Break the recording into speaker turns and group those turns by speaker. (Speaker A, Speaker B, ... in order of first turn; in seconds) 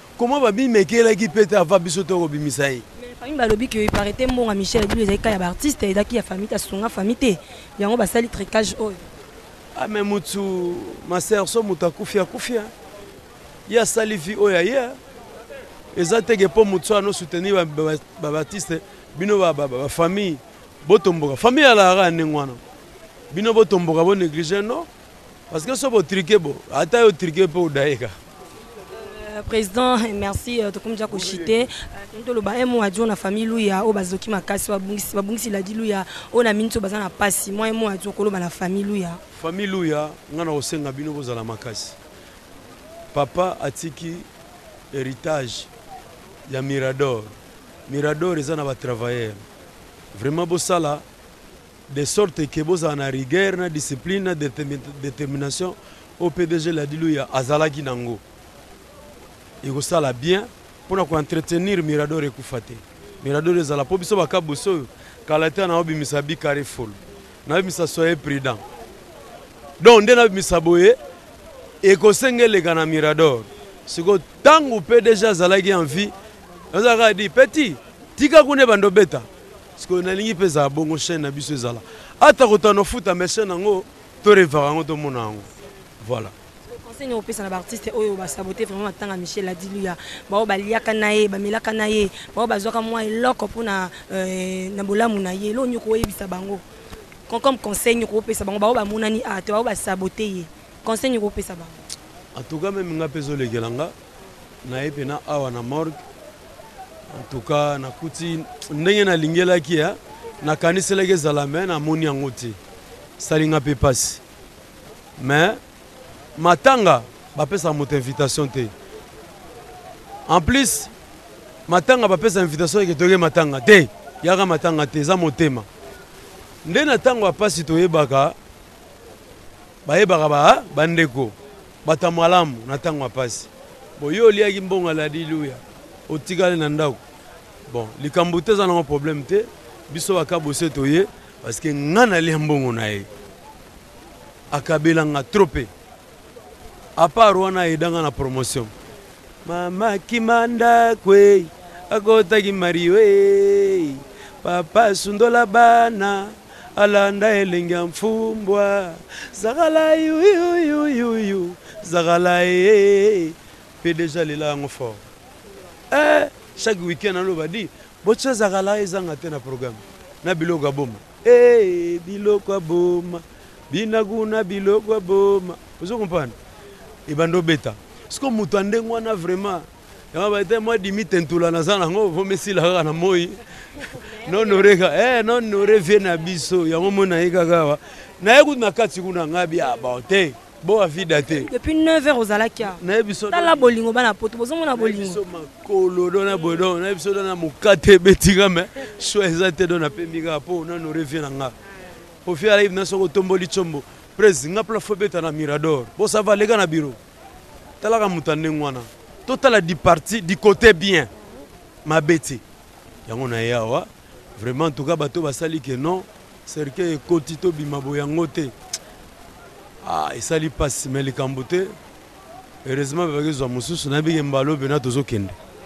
Speaker A: 0.2-2.8, 9.8-12.7, 13.7-15.0, 15.9-22.6, 23.3-24.9, 25.5-28.1, 31.1-31.7, 39.3-42.0, 43.1-44.3, 44.9-45.7, 46.5-47.3, 47.9-49.4, 50.1-51.0, 51.9-58.2, 59.6-68.6, 69.8-71.0, 71.8-76.1, 76.7-85.5, 86.0-86.3, 102.3-103.9, 104.6-106.0, 107.1-112.6, 113.2-114.2, 115.2-115.6, 116.4-118.7, 120.3-120.9, 121.7-125.7, 126.6-128.3, 129.8-131.3, 131.8-137.0, 137.7-143.1, 144.5-145.7, 147.0-148.7, 149.4-165.0, 165.9-176.3, 177.1-183.4, 183.9-191.5, 192.7-193.7, 194.8-201.5, 202.2-207.0, 207.8-211.1, 211.8-212.4, 213.1-218.5, 219.8-221.7, 222.6-225.4
Speaker B: 3.0-9.0, 28.9-39.2, 86.7-96.6, 97.3-101.8, 184.0-184.6, 191.3-195.2